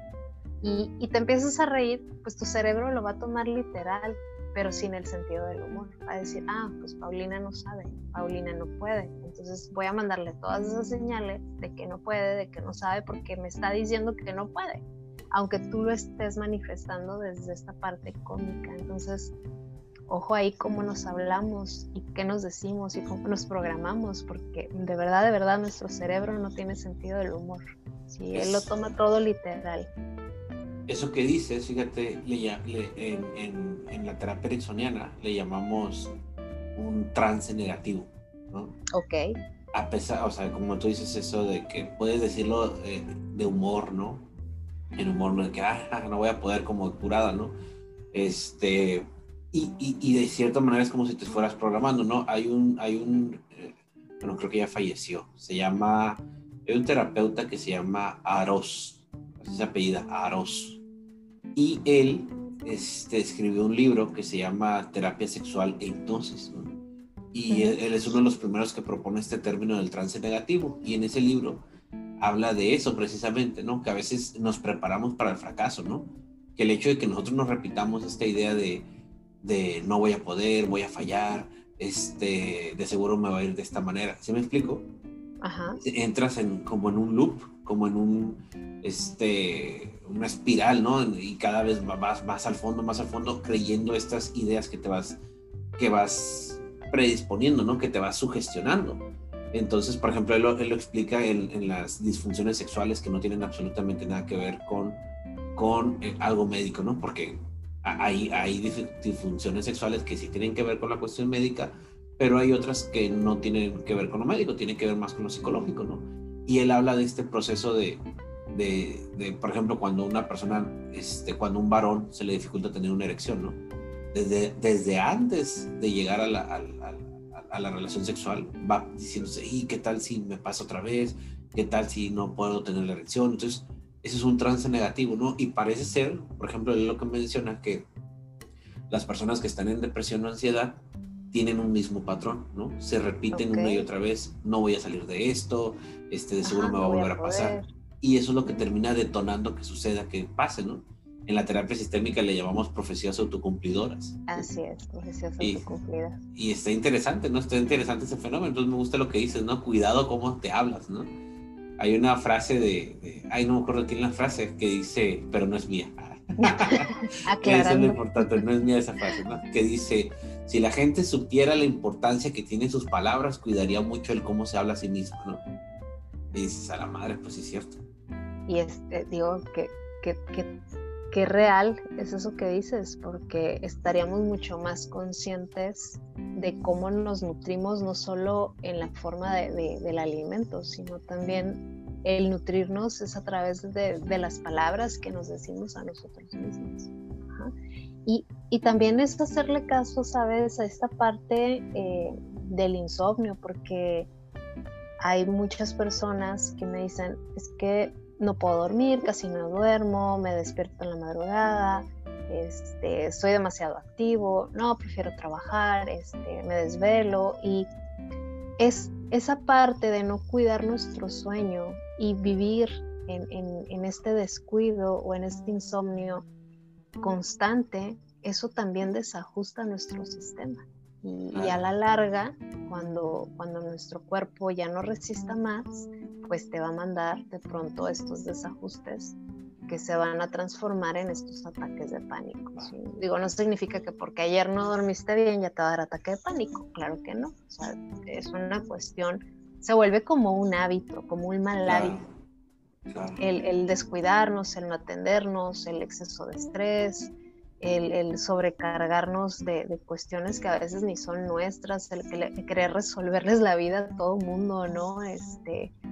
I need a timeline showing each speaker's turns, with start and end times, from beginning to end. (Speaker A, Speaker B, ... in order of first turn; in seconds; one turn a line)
Speaker A: 0.6-19.3
Speaker A: 20.1-29.9
Speaker B: 28.3-28.7
Speaker B: 30.9-36.1
Speaker B: 36.8-38.8
Speaker A: 38.9-39.3
Speaker B: 39.7-44.3
Speaker B: 45.0-47.5
Speaker B: 48.1-60.8
Speaker B: 61.5-66.8
Speaker B: 67.3-71.6
Speaker A: 67.5-67.8
Speaker B: 72.2-78.8
Speaker B: 79.4-84.9
Speaker A: 85.4-85.8
Speaker B: 85.8-95.2
Speaker B: 95.8-105.0
Speaker B: 105.5-118.0
Speaker B: 118.5-123.6
Speaker B: 124.1-137.9
Speaker B: 138.9-140.8
Speaker B: 141.3-154.4
Speaker A: 143.3-143.9
Speaker A: 146.4-147.7
Speaker A: 154.3-156.2
Speaker B: 156.3-161.1
Speaker B: 161.8-175.4
Speaker A: 166.4-168.4
Speaker B: 176.3-177.8
Speaker A: 178.5-180.5
Speaker A: 181.1-197.5
Speaker A: 198.1-204.1
Speaker A: 205.0-217.7
Speaker A: 218.6-226.2
Speaker A: 227.0-239.2
Speaker B: 231.3-231.6
Speaker A: 239.7-252.0
Speaker B: 251.7-252.1
Speaker B: 252.9-253.2
Speaker A: 253.2-265.7